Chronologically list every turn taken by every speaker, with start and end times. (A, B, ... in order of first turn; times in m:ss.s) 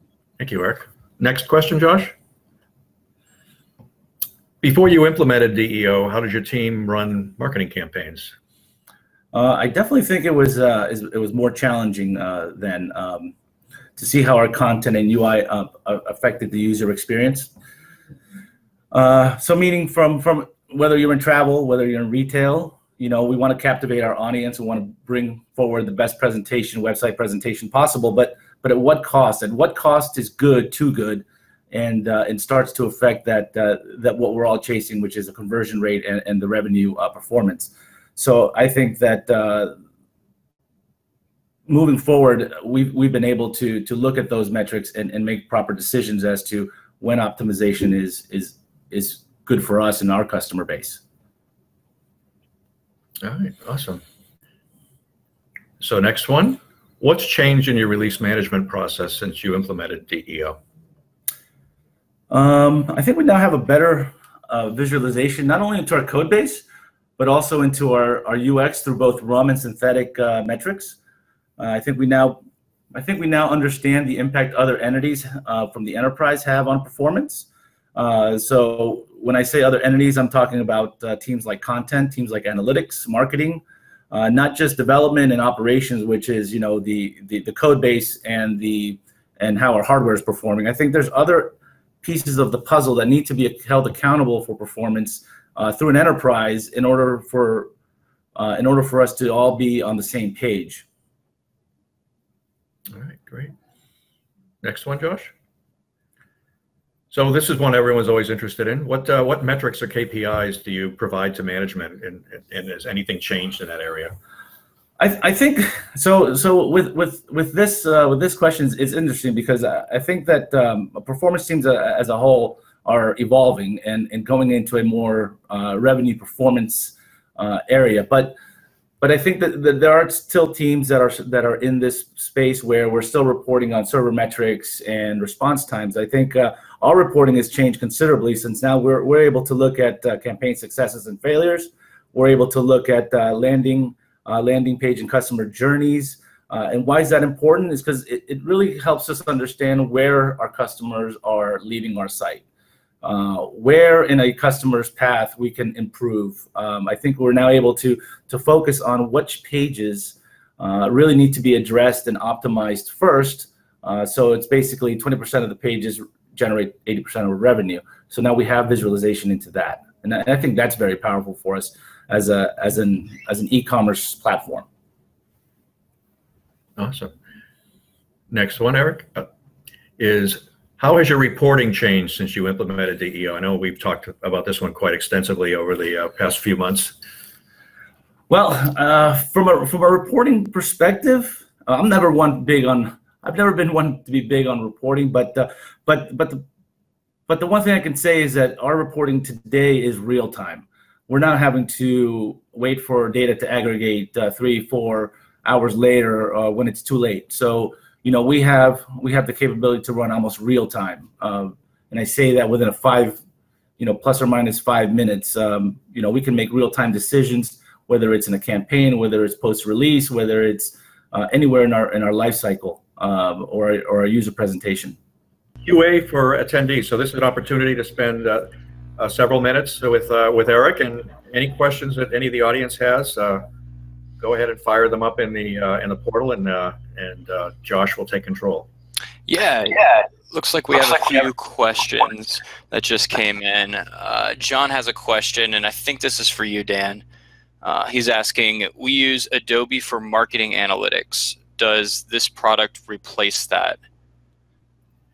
0:00.4-0:02.1 A
0:04.6-0:08.3 A
0:09.3-0:13.3 B
0:14.0-0:17.5 B
0:18.9-0:39.8 B
0:41.7-0:51.0 B
0:53.2-0:54.0 A
0:55.8-1:00.6 A
1:02.3-1:06.6 B
1:07.2-1:11.0 B
1:11.6-1:12.4 B
1:12.9-1:37.7 B
1:38.4-1:40.8 B
1:42.9-1:43.5 A
1:44.6-1:45.3 A
1:47.1-1:54.2 A
1:55.0-2:08.4 B
2:09.0-2:32.4 B
2:33.0-2:54.7 B
2:56.8-2:57.1 A
2:58.3-2:59.3 A
3:00.0-3:07.0 A
3:08.3-3:16.4 B
3:17.3-3:33.2 B
3:33.8-3:45.0 B
3:45.6-3:53.4 A
3:54.2-3:58.7 A
3:59.3-4:07.0 C
4:07.6-4:13.8 C